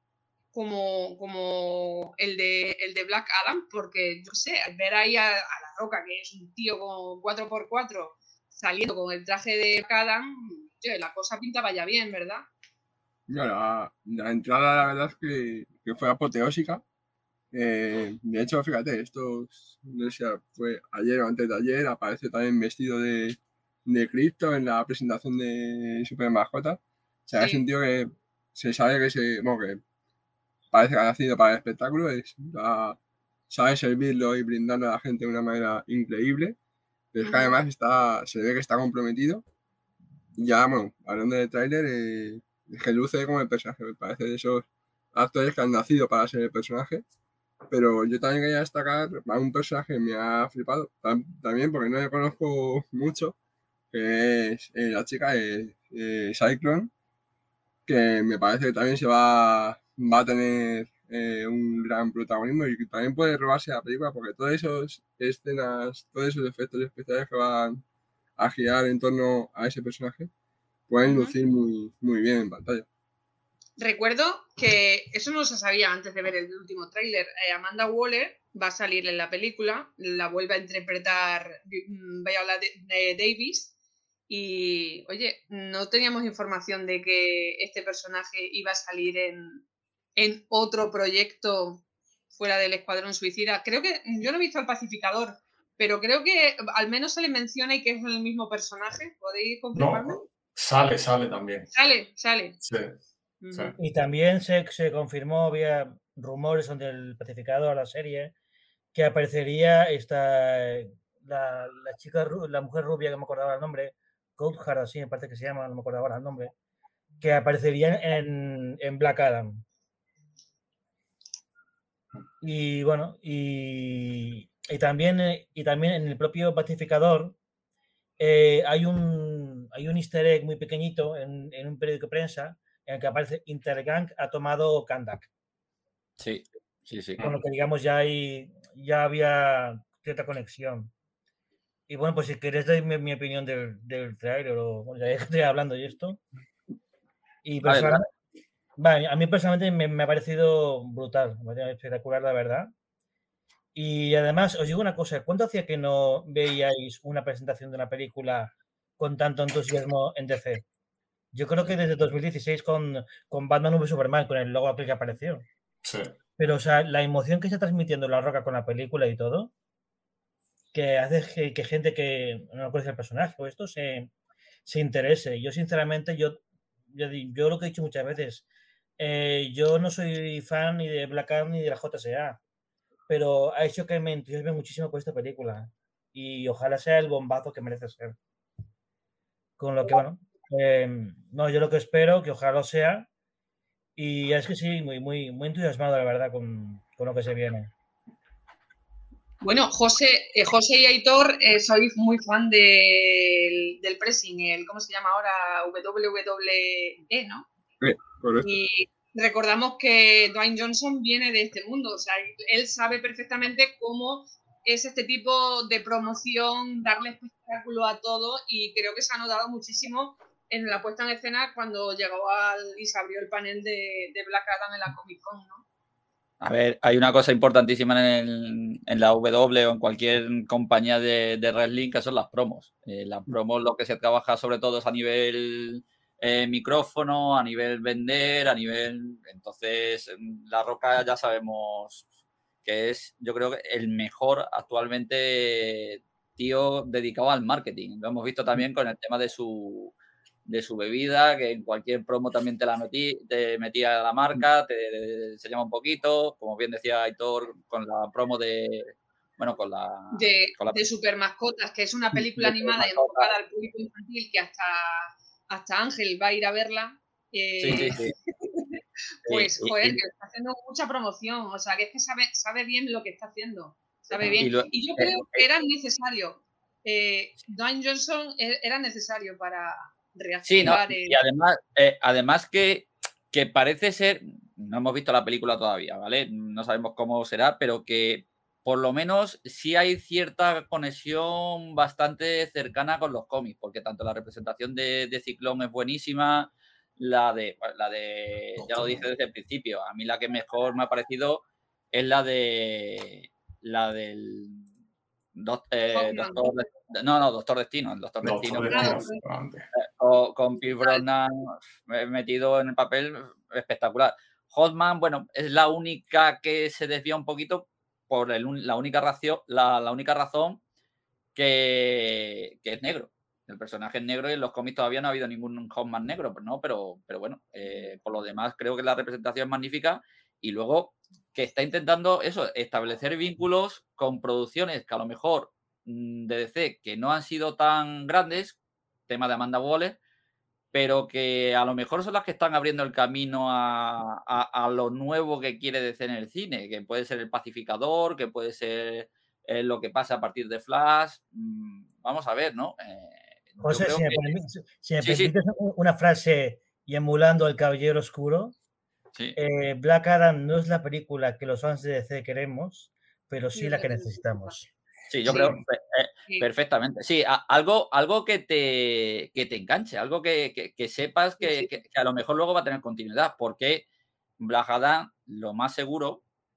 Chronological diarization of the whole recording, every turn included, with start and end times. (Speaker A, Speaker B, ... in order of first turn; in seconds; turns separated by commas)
Speaker A: 0.5-12.5, Speaker B: 13.3-16.8, Speaker B: 17.5-29.8, Speaker B: 30.7-33.0, Speaker B: 33.5-36.5, Speaker B: 37.1-39.4, Speaker A: 37.2-37.6, Speaker B: 40.4-47.0, Speaker B: 47.7-53.3, Speaker B: 53.9-56.9, Speaker B: 57.9-67.8, Speaker B: 68.4-70.3, Speaker B: 70.9-72.9, Speaker A: 71.0-71.3, Speaker A: 73.8-83.7, Speaker A: 84.3-89.6, Speaker A: 90.2-100.2, Speaker C: 99.8-101.7, Speaker A: 101.7-102.6, Speaker C: 102.6-102.9, Speaker A: 103.4-103.7, Speaker D: 103.8-108.3, Speaker D: 108.9-116.5, Speaker D: 117.2-119.6, Speaker D: 122.4-127.3, Speaker D: 128.2-135.3, Speaker E: 136.2-137.2, Speaker D: 137.2-140.9, Speaker D: 141.9-146.2, Speaker D: 147.4-148.1, Speaker E: 147.6-148.0, Speaker D: 148.8-152.7, Speaker D: 153.8-160.6, Speaker D: 161.3-165.5, Speaker C: 165.8-166.1, Speaker D: 166.4-169.5, Speaker D: 170.7-174.1, Speaker D: 174.7-176.4, Speaker D: 176.9-178.4, Speaker D: 179.0-182.4, Speaker D: 183.1-188.2, Speaker D: 189.6-193.1, Speaker D: 194.0-197.7, Speaker A: 199.4-207.5, Speaker B: 207.8-208.5, Speaker A: 208.4-225.6, Speaker E: 226.4-242.0, Speaker E: 242.6-249.9, Speaker E: 250.5-260.8, Speaker A: 260.1-281.2, Speaker E: 262.1-263.3, Speaker E: 267.6-268.1, Speaker E: 269.3-270.0, Speaker E: 274.2-275.4, Speaker E: 280.4-304.7, Speaker C: 298.6-299.1, Speaker E: 305.4-309.0, Speaker A: 305.9-306.5, Speaker C: 308.2-309.6, Speaker A: 308.7-309.2, Speaker E: 309.8-320.6, Speaker E: 321.4-338.6, Speaker E: 339.1-340.0, Speaker E: 340.7-354.3, Speaker D: 353.6-358.5, Speaker E: 355.0-355.3, Speaker D: 359.4-364.7, Speaker A: 363.5-364.6, Speaker E: 365.1-373.9, Speaker A: 365.2-365.6, Speaker A: 371.4-371.7, Speaker E: 374.4-376.2